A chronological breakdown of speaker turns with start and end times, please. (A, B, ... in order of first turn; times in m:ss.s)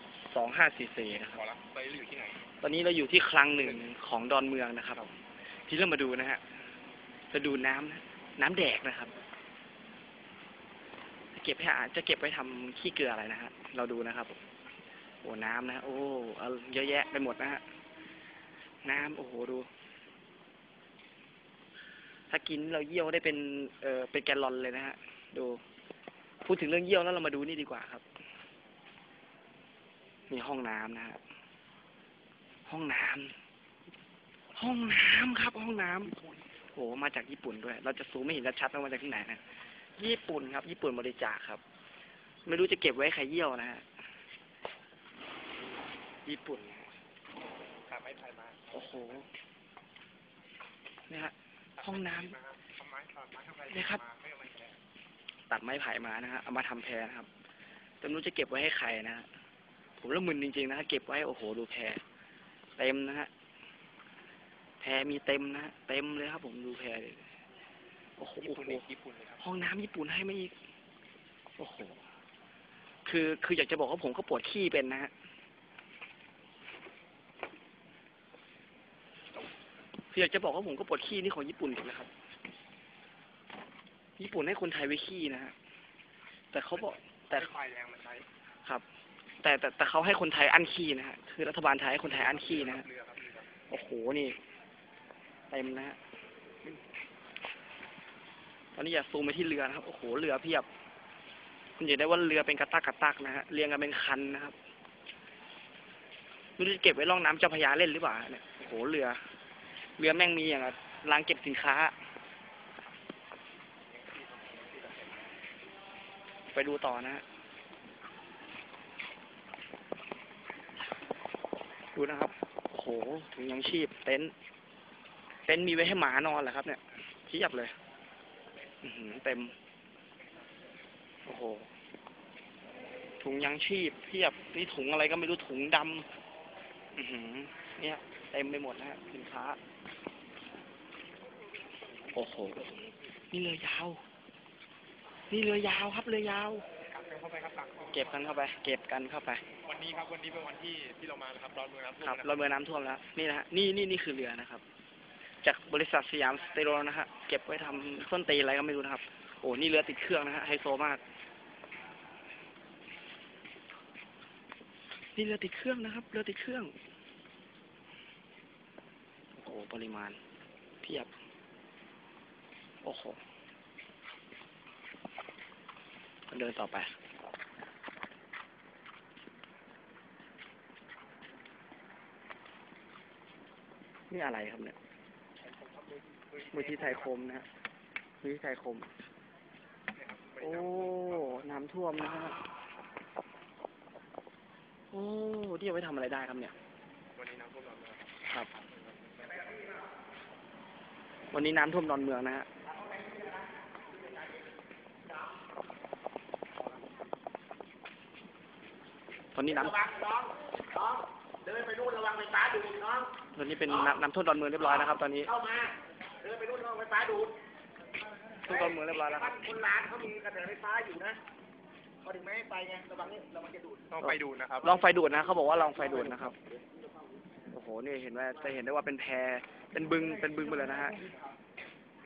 0:00.3-0:01.4 A
0:01.1-0:02.5 B
0:02.6-0:05.2 A
0:03.6-0:03.8 B
0:05.7-0:06.4 A
0:07.3-0:09.1 A
0:11.3-0:14.4 A
0:15.2-0:17.6 A
0:18.8-0:19.7 A
0:22.3-0:25.6 A
0:26.4-0:28.0 A
0:30.3-0:31.2 A
0:32.7-0:33.3 A
0:34.6-0:36.2 A
0:36.7-0:39.4 A
0:40.0-0:41.6 A
0:42.4-0:43.8 A
0:46.2-0:46.9 A
0:47.9-0:49.1 B
0:48.7-0:49.3 A
0:51.1-0:52.3 A
0:51.8-0:54.8 B
0:53.7-0:54.0 A
0:55.5-0:57.3 A
0:58.0-0:59.3 A
1:00.0-1:02.0 A
1:02.8-1:03.3 A
1:04.8-1:07.2 A
1:08.2-1:08.8 A
1:08.4-1:09.4 B
1:09.4-1:10.5 A
1:11.6-1:12.0 A
1:13.0-1:15.1 A
1:20.1-1:22.1 A
1:24.2-1:25.6 A
1:26.5-1:27.5 A
1:26.7-1:28.2 B
1:29.4-1:32.9 A
1:32.0-1:33.5 B
1:33.7-1:34.4 A
1:35.5-1:36.0 A
1:38.8-1:40.7 A
1:41.8-1:44.6 A
1:46.6-1:49.2 A
1:50.0-1:51.9 A
1:53.9-1:55.3 B
1:56.5-1:57.2 A
2:01.9-2:04.3 A
2:05.5-2:07.8 A
2:08.8-2:09.5 A
2:11.2-2:11.7 A
2:13.2-2:16.1 A
2:17.0-2:19.6 A
2:22.1-2:22.8 A
2:22.5-2:22.9 B
2:23.3-2:24.0 A
2:25.3-2:26.7 A
2:26.9-2:28.4 B
2:27.9-2:29.4 A
2:29.6-2:32.4 B
2:32.0-2:34.6 A
2:35.4-2:41.0 A
2:45.2-2:46.7 A
2:49.4-2:50.2 A
2:50.8-2:51.1 A
2:52.8-2:53.2 A
2:56.3-2:57.0 A
3:04.1-3:04.8 A
3:05.4-3:07.1 B
3:06.5-3:07.5 A
3:08.2-3:08.9 A
3:09.9-3:11.5 B
3:10.4-3:12.4 A
3:14.9-3:16.5 A
3:17.2-3:19.5 B
3:21.3-3:22.5 A
3:22.8-3:23.4 C
3:29.3-3:29.8 A
3:29.5-3:33.2 C
3:33.3-3:35.3 A
3:35.3-3:37.4 C
3:38.4-3:39.4 A
3:38.4-3:41.2 C
3:42.0-3:43.9 C
3:43.9-3:44.8 B
3:44.0-3:46.4 A
3:47.5-3:51.0 A